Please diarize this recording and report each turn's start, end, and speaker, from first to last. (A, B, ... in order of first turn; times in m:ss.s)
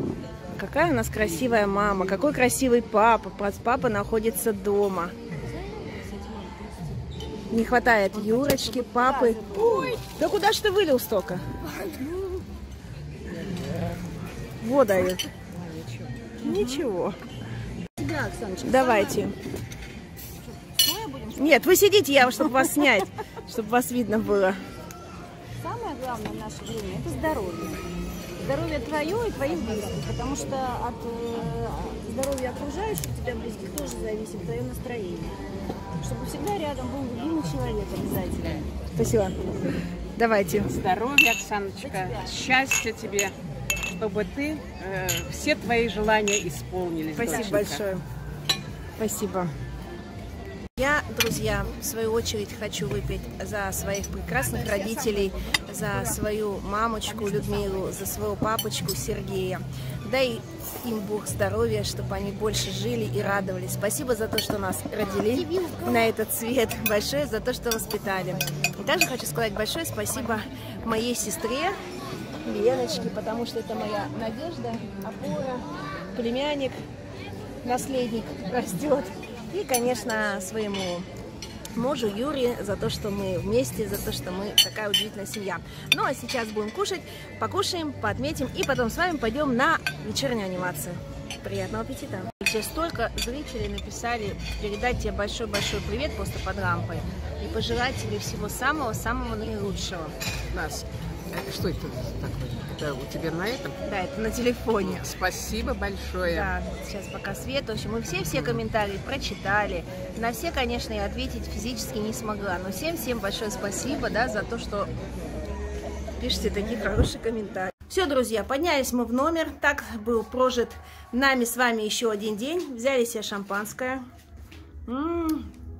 0:00.6-0:05.1 A
0:05.6-0:06.7 B
0:07.5-0:11.4 A
0:08.2-0:10.0 B
0:11.6-0:12.4 B
0:14.6-0:15.3 A
0:16.4-0:17.2 A
0:16.4-0:16.8 B
0:18.0-0:19.2 B
0:18.6-0:19.4 A
0:20.5-0:21.7 B
0:21.4-0:24.6 A
0:25.6-0:27.8 B
0:28.4-0:35.4 B
0:36.0-0:38.7 B
0:38.9-0:39.4 A
0:40.2-0:40.7 A
0:40.7-0:43.4 C
0:41.8-0:42.4 B
0:44.0-0:47.8 C
0:47.2-0:48.0 A
0:47.2-0:47.6 B
0:49.0-0:49.5 A
0:50.8-1:11.8 A
1:05.2-1:06.1 B
1:12.4-1:16.8 A
1:17.6-1:21.1 A
1:21.8-1:40.2 A
1:40.5-1:43.8 C
1:43.8-1:45.1 A
1:44.8-1:46.5 C
1:46.2-1:54.9 A
1:56.2-2:04.0 A
2:04.9-2:05.5 A